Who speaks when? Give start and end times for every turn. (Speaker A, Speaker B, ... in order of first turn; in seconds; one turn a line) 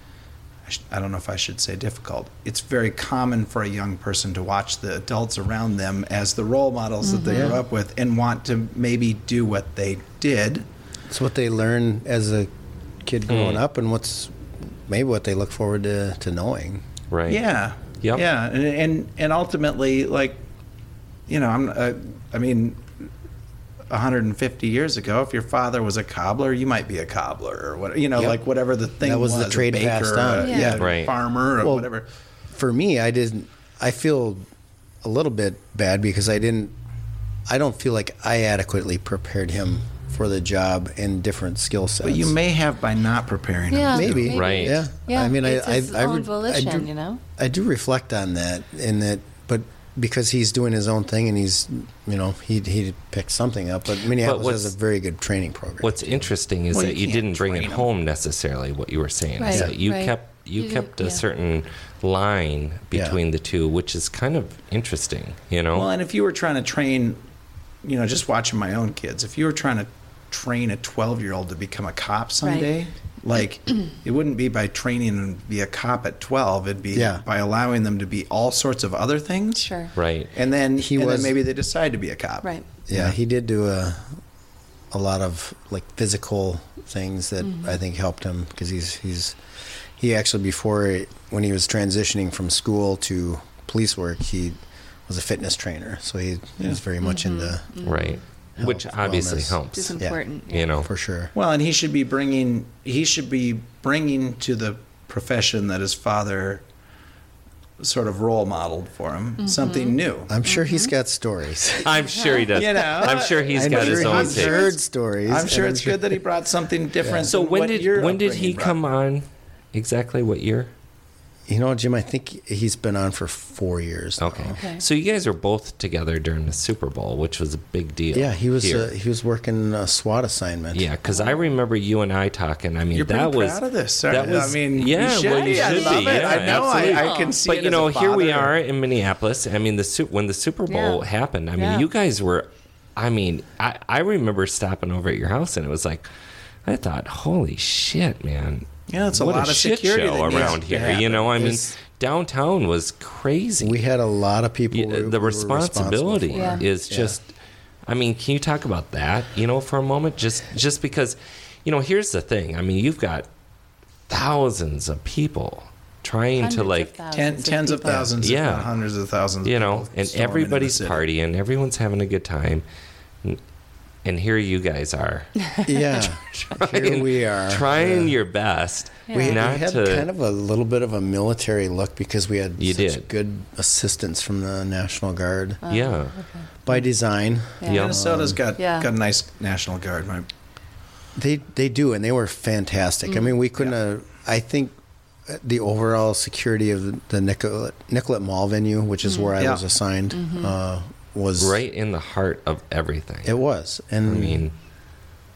Speaker A: 0.7-10.7
Speaker B: 7.0-7.6
Speaker C: 7.3-7.6
Speaker C: 11.1-12.5
Speaker C: 13.0-16.8
Speaker D: 13.3-13.6
Speaker D: 17.1-17.4
Speaker A: 17.3-20.4
Speaker A: 21.3-23.1
Speaker A: 23.9-32.0
Speaker C: 29.0-30.9
Speaker B: 30.4-30.8
Speaker D: 30.8-31.1
Speaker C: 31.6-31.9
Speaker C: 32.5-34.5
Speaker C: 35.0-36.7
Speaker C: 37.5-42.3
Speaker A: 42.0-44.3
Speaker B: 43.7-47.2
Speaker C: 43.9-56.3
Speaker D: 44.3-44.8
Speaker D: 54.2-54.7
Speaker D: 55.8-65.9
Speaker A: 56.7-57.9
Speaker B: 59.4-61.2
Speaker A: 65.7-67.2
Speaker A: 67.8-79.7
Speaker B: 72.4-72.7
Speaker C: 76.9-77.2
Speaker B: 79.6-79.9
Speaker D: 80.0-80.3
Speaker A: 80.3-83.1
Speaker C: 80.8-81.4
Speaker C: 82.9-84.2
Speaker C: 84.9-89.4
Speaker B: 87.4-87.7
Speaker C: 90.0-94.5
Speaker C: 95.1-97.9
Speaker B: 97.0-98.2
Speaker D: 97.8-100.9
Speaker C: 98.6-100.2
Speaker B: 99.7-100.7
Speaker C: 100.8-101.3
Speaker A: 101.3-106.6
Speaker A: 107.8-110.3
Speaker B: 109.4-110.9
Speaker C: 110.3-112.0
Speaker D: 111.8-114.7
Speaker A: 112.5-114.7
Speaker C: 113.5-116.2
Speaker A: 115.3-118.8
Speaker C: 117.0-117.3
Speaker D: 117.2-120.7
Speaker C: 121.5-124.6
Speaker D: 124.2-128.9
Speaker B: 124.5-124.8
Speaker C: 128.1-130.8
Speaker D: 130.7-146.1
Speaker B: 131.1-131.5
Speaker A: 132.9-138.5
Speaker B: 135.2-137.4
Speaker B: 140.7-141.0
Speaker B: 141.6-141.9
Speaker D: 146.6-153.8
Speaker A: 148.9-151.7
Speaker C: 153.6-157.2
Speaker D: 154.7-157.3
Speaker B: 156.3-156.6
Speaker D: 157.9-163.3
Speaker D: 164.1-166.9
Speaker B: 166.4-168.1
Speaker A: 167.1-171.0
Speaker D: 168.0-168.7
Speaker D: 169.4-172.6
Speaker D: 174.0-180.1
Speaker C: 175.6-178.2
Speaker B: 179.1-179.4
Speaker C: 179.1-185.6
Speaker D: 182.6-183.1
Speaker B: 185.6-186.5
Speaker D: 185.7-186.1
Speaker C: 186.6-188.4
Speaker B: 187.6-187.9
Speaker D: 187.7-188.0
Speaker A: 187.7-190.3
Speaker B: 188.6-188.9
Speaker C: 191.2-194.7
Speaker B: 193.1-193.3
Speaker C: 195.3-201.6
Speaker B: 199.0-199.3
Speaker A: 199.4-199.6
Speaker B: 200.1-200.5
Speaker D: 201.4-203.3
Speaker C: 203.2-204.4
Speaker D: 204.1-204.5